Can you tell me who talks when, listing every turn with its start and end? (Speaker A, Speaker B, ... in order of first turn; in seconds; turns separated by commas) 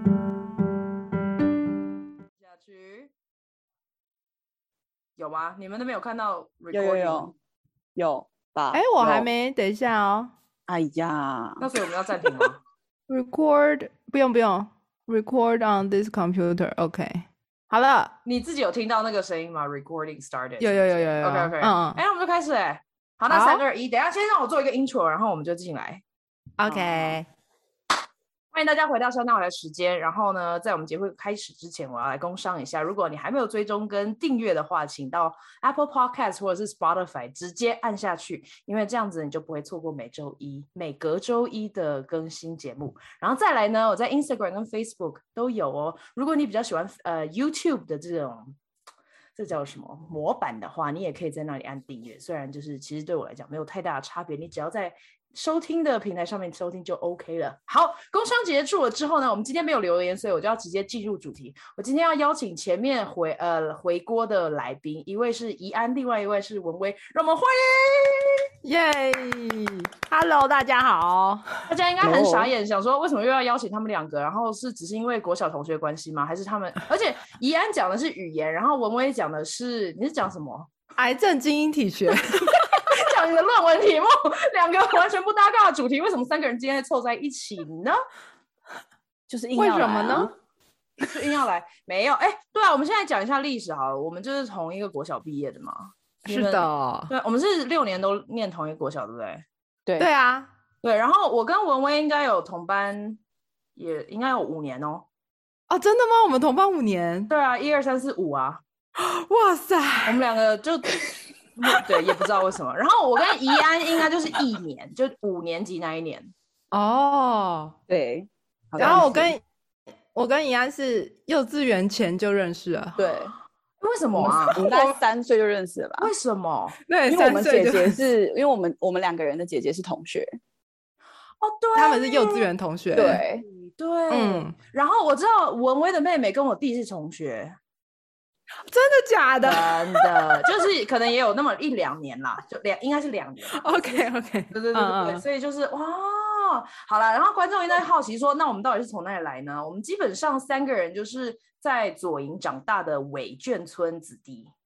Speaker A: 2.4-3.1, Speaker A: 5.2-7.3, Speaker B: 6.7-7.3, Speaker B: 8.0-9.3, Speaker C: 8.7-10.3, Speaker B: 10.7-11.6, Speaker A: 11.6-12.6, Speaker C: 13.1-18.1, Speaker A: 18.2-26.0, Speaker C: 20.6-22.0, Speaker C: 23.3-23.6, Speaker C: 26.6-27.3, Speaker A: 26.6-27.2, Speaker A: 28.5-48.5, Speaker A: 49.4-68.4, Speaker C: 68.6-71.5, Speaker A: 71.7-80.7, Speaker B: 72.0-72.5, Speaker C: 81.0-82.5, Speaker A: 82.4-88.0, Speaker B: 89.3-90.3, Speaker C: 89.6-90.3, Speaker A: 91.1-99.4, Speaker C: 96.2-97.1, Speaker C: 100.0-100.5, Speaker A: 100.8-103.2, Speaker A: 103.8-105.1, Speaker C: 105.7-107.3, Speaker A: 107.3-108.6, Speaker C: 109.0-110.2, Speaker A: 110.0-111.0, Speaker A: 111.6-116.3, Speaker C: 116.7-117.8, Speaker B: 117.9-119.3, Speaker C: 118.8-119.4, Speaker C: 120.2-123.0, Speaker B: 123.0-123.3, Speaker A: 123.8-124.7, Speaker B: 124.2-126.1, Speaker C: 124.3-125.0, Speaker A: 126.0-126.8, Speaker C: 126.9-128.0, Speaker B: 127.1-130.4, Speaker A: 131.4-132.5, Speaker C: 131.8-133.2, Speaker B: 132.9-133.4, Speaker A: 133.5-137.6, Speaker C: 134.1-134.6, Speaker C: 138.7-140.5, Speaker A: 139.4-154.5, Speaker C: 143.5-145.2